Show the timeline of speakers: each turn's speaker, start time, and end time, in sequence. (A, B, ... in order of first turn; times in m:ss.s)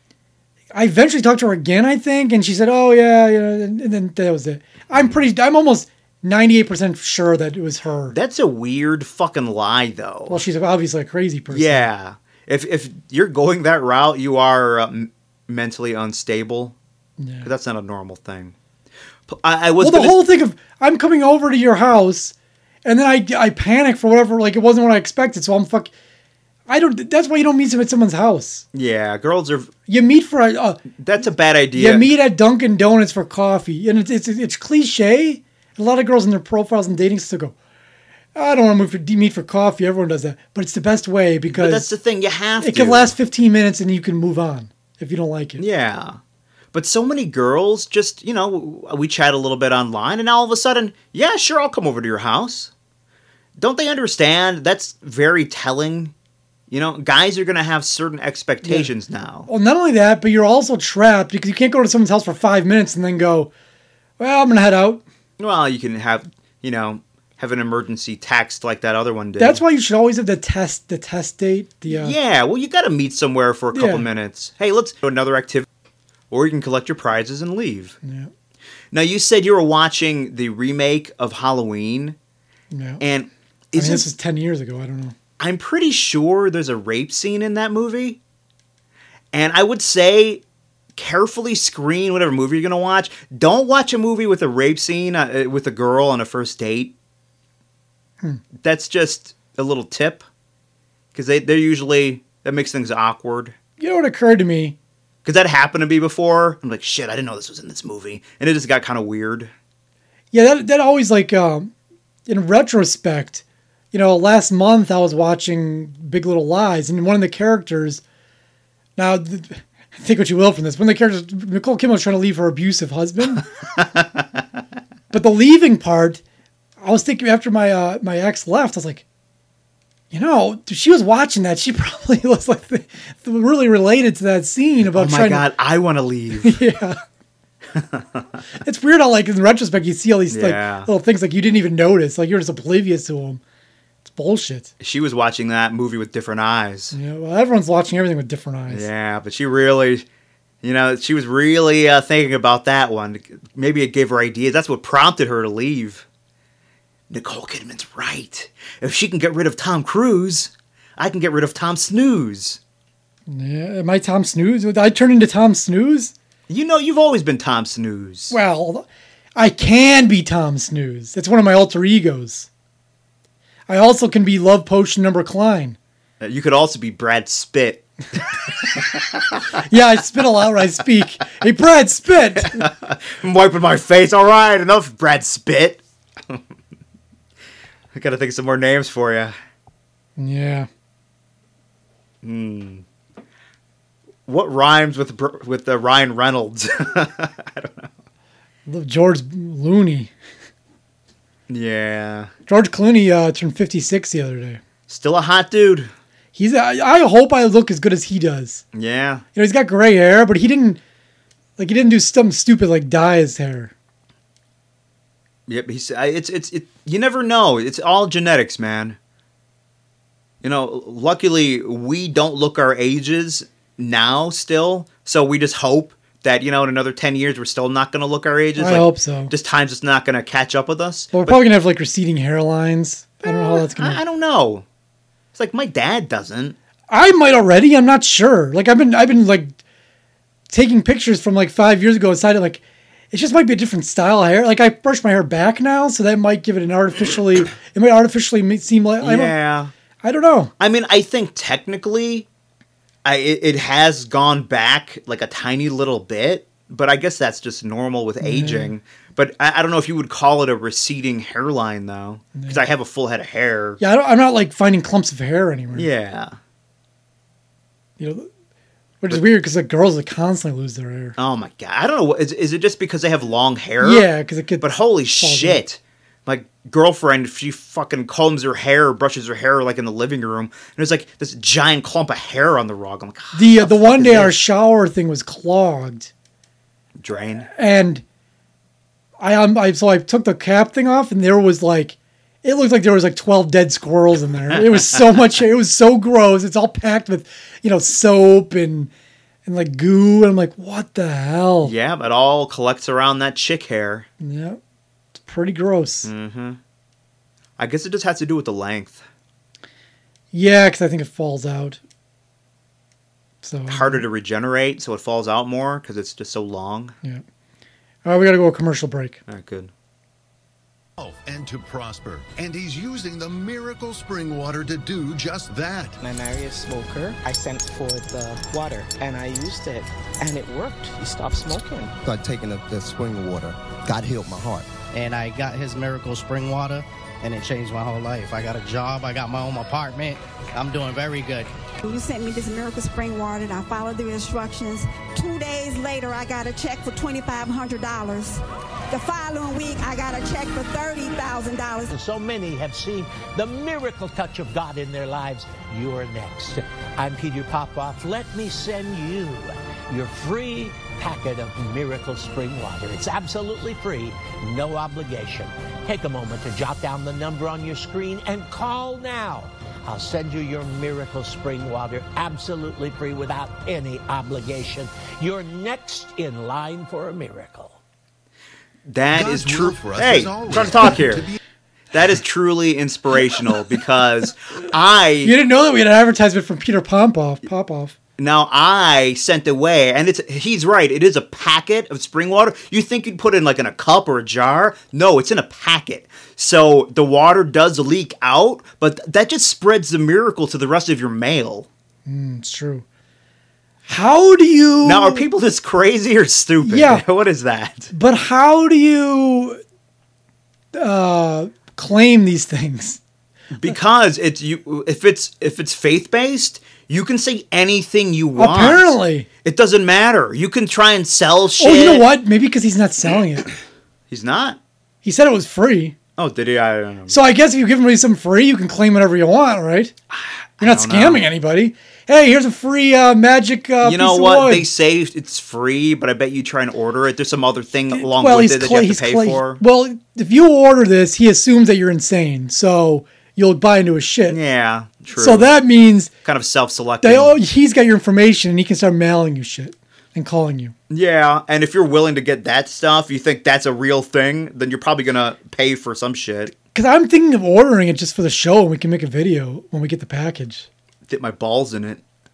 0:00.7-0:08.2 A
0:04.9-0:05.2 B
0:08.1-0:10.4 B
0:10.3-0:11.9 A
0:11.5-0:16.7 B
0:17.2-0:17.5 A
0:17.4-0:18.5 B
0:19.3-0:20.2 B
0:19.8-0:25.9 A
0:26.7-0:28.6 A
0:28.7-0:29.7 B
0:29.9-0:30.8 A
0:30.9-0:32.1 B
0:31.7-0:37.5 A
0:38.3-0:41.9 A
0:41.5-0:43.1 B
0:42.6-0:45.6 A
0:45.6-0:46.2 B
0:46.7-0:52.7 B
0:53.6-0:56.1 B
0:56.7-0:59.5 B
0:58.6-0:58.9 A
0:59.5-1:03.5 A
1:04.2-1:05.0 A
1:05.4-1:09.6 B
1:09.4-1:12.2 A
1:11.9-1:15.7 B
1:13.7-1:14.0 A
1:16.3-1:18.0 B
1:18.0-1:18.3 A
1:18.9-1:22.2 B
1:22.7-1:23.0 A
1:23.0-1:24.1 B
1:23.7-1:25.1 A
1:25.4-1:28.2 B
1:29.3-1:30.4 B
1:31.0-1:36.9 B
1:38.5-1:40.2 B
1:41.1-1:43.6 B
1:43.8-1:44.8 A
1:45.2-1:49.5 B
1:50.3-1:51.7 A
1:52.3-1:58.0 A
1:59.0-2:03.4 A
2:03.8-2:04.4 B
2:05.1-2:06.2 A
2:06.8-2:09.0 A
2:10.1-2:15.5 A
2:14.8-2:16.6 B
2:16.4-2:17.0 A
2:17.7-2:18.2 B
2:18.6-2:23.4 A
2:20.3-2:20.9 B
2:24.0-2:24.7 A
2:24.8-2:27.0 B
2:26.9-2:28.9 A
2:28.7-2:30.0 B
2:30.6-2:36.0 B
2:37.1-2:42.6 B
2:43.3-2:46.1 A
2:46.5-2:48.3 B
2:48.3-2:52.5 A
2:53.7-2:55.8 A
2:56.2-2:59.4 B
2:59.6-3:02.6 A
3:02.4-3:06.4 B
3:07.9-3:09.3 B
3:10.2-3:10.7 A
3:12.2-3:12.8 B
3:14.2-3:17.9 B
3:18.7-3:20.1 A
3:21.5-3:22.3 B
3:22.5-3:24.6 A
3:24.9-3:25.9 B
3:26.3-3:28.6 A
3:28.7-3:29.2 B
3:29.3-3:30.8 A
3:31.6-3:33.7 A
3:35.5-3:39.0 B
3:40.4-3:51.4 B
3:48.6-3:49.3 A
3:51.1-3:54.0 A
3:53.2-3:54.6 B
3:55.3-3:56.6 B
3:56.9-3:59.6 A
4:00.5-4:02.6 A
4:03.1-4:09.4 A
4:09.0-4:09.7 B
4:10.0-4:10.5 A
4:10.6-4:12.3 B
4:13.0-4:23.8 B
4:18.2-4:18.7 A
4:22.3-4:22.6 A
4:23.8-4:25.9 A
4:25.7-4:26.4 B
4:28.0-4:28.3 A
4:29.0-4:31.2 A
4:31.2-4:34.1 B
4:33.8-4:35.6 A
4:34.6-4:44.4 B
4:43.3-4:46.1 A
4:47.0-4:47.5 B
4:47.5-4:48.0 A
4:49.2-4:58.9 A
4:59.4-5:01.7 A
5:01.6-5:04.1 B
5:04.2-5:04.6 A
5:05.2-5:06.1 A
5:06.0-5:06.6 B
5:07.6-5:09.0 B
5:10.3-5:11.8 A
5:13.4-5:14.0 A
5:13.7-5:17.0 B
5:18.0-5:19.2 A
5:19.3-5:19.7 B
5:21.0-5:26.0 C
5:26.0-5:32.0 D
5:32.0-5:34.7 E
5:34.9-5:41.5 F
5:41.8-5:51.9 G
5:51.9-6:17.8 H
6:18.9-6:21.3 B
6:19.1-6:21.4 C
6:21.9-6:25.4 B
6:25.2-6:27.9 A
6:28.2-6:41.7 B
6:42.0-6:42.8 A
6:43.9-6:45.2 A
6:44.8-6:47.9 B
6:46.6-6:47.0 A
6:47.9-6:49.6 A
6:50.7-6:53.0 A
6:53.5-7:02.1 B
6:58.4-6:59.3 A
7:01.6-7:03.5 A
7:04.1-7:04.6 B
7:05.0-7:05.9 A
7:06.2-7:07.2 B
7:07.1-7:09.9 A
7:10.1-7:11.2 B
7:10.6-7:14.6 A
7:13.8-7:19.6 B
7:17.9-7:24.4 A
7:24.3-7:25.5 B
7:25.1-7:26.1 A
7:26.2-7:27.4 B
7:27.0-7:30.7 A
7:30.9-7:36.5 B
7:36.7-7:40.7 A
7:41.1-7:42.0 B